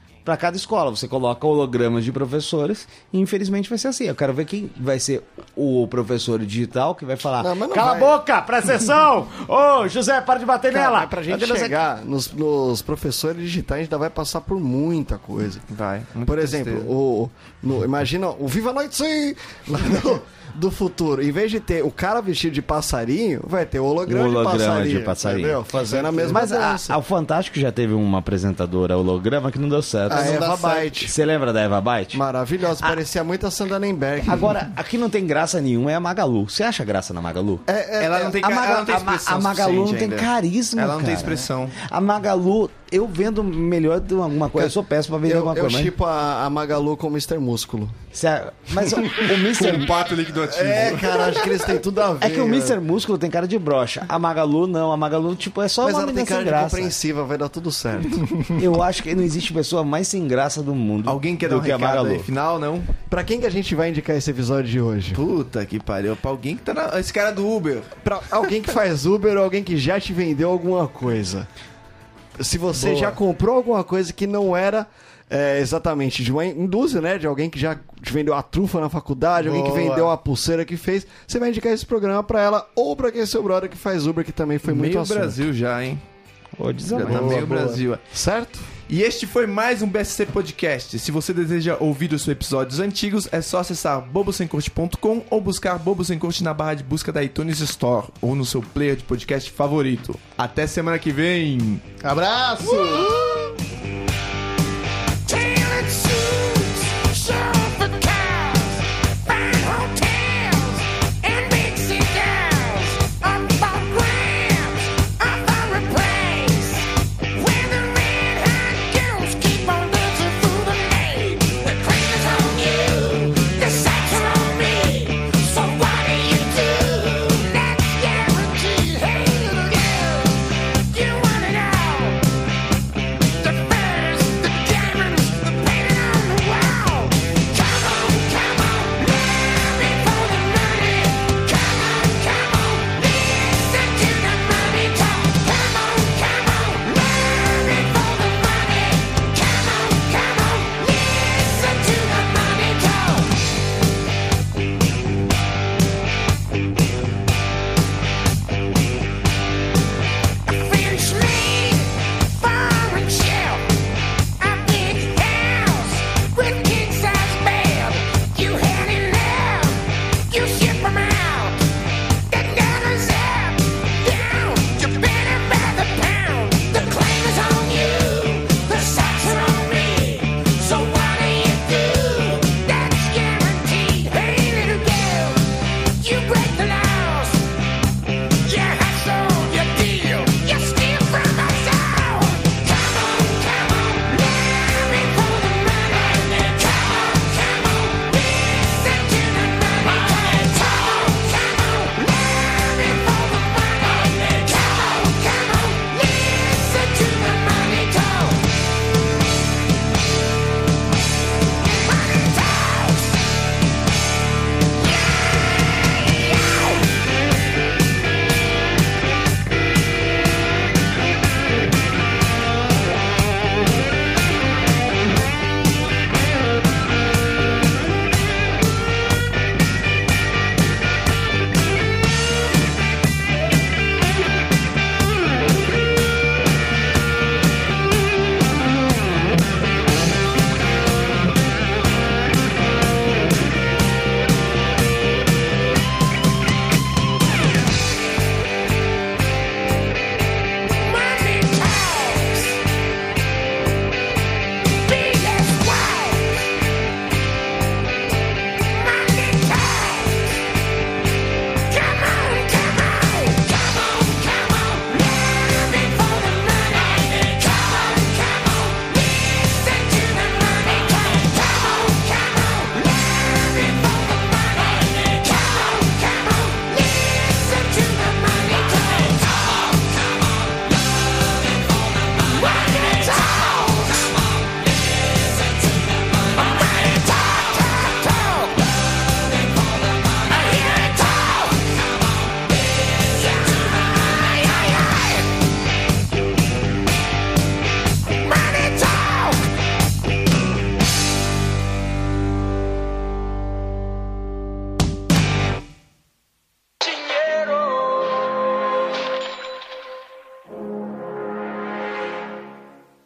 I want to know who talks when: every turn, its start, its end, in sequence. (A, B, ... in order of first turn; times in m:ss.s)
0:00.2-0:11.7 A
0:07.4-0:08.2 B
0:10.7-0:15.6 B
0:15.7-0:16.9 C
0:16.3-0:27.0 B
0:24.1-0:30.5 A
0:30.1-0:31.2 B
0:30.1-0:30.9 D
0:31.0-0:32.2 A
0:32.1-0:34.6 B
0:34.3-0:37.6 A
0:37.7-0:38.4 B
0:38.0-0:41.8 C
0:38.4-0:45.9 A
0:44.6-0:48.0 B
0:48.1-0:49.9 A
0:49.4-0:51.4 C
0:50.4-0:52.8 B
0:52.2-0:57.0 A
0:55.8-0:58.4 B
0:58.6-1:02.3 A
1:01.0-1:02.9 C
1:03.1-1:05.2 B
1:05.2-1:07.9 C
1:08.0-1:11.5 B
1:12.4-1:25.4 B
1:19.4-1:20.2 D
1:24.7-1:26.0 C
1:26.6-1:27.4 A
1:26.9-1:28.0 C
1:27.0-1:27.8 D
1:28.1-1:28.7 B
1:28.9-1:41.8 C
1:42.0-1:43.2 D
1:45.3-2:12.2 E
2:13.4-2:33.3 E
2:40.5-2:43.6 E
2:44.4-2:51.6 E
2:52.3-3:05.5 E
3:06.0-3:07.4 E
3:08.4-3:28.5 E
3:31.7-3:33.2 E
3:36.0-3:36.7 E
4:10.8-4:12.6 E
4:14.8-4:16.3 E
4:18.7-4:20.4 E
4:21.7-4:39.6 E
4:42.4-4:44.1 E
4:46.3-4:48.6 E
4:50.2-4:51.6 E
4:53.1-4:55.3 E
4:58.2-4:59.4 E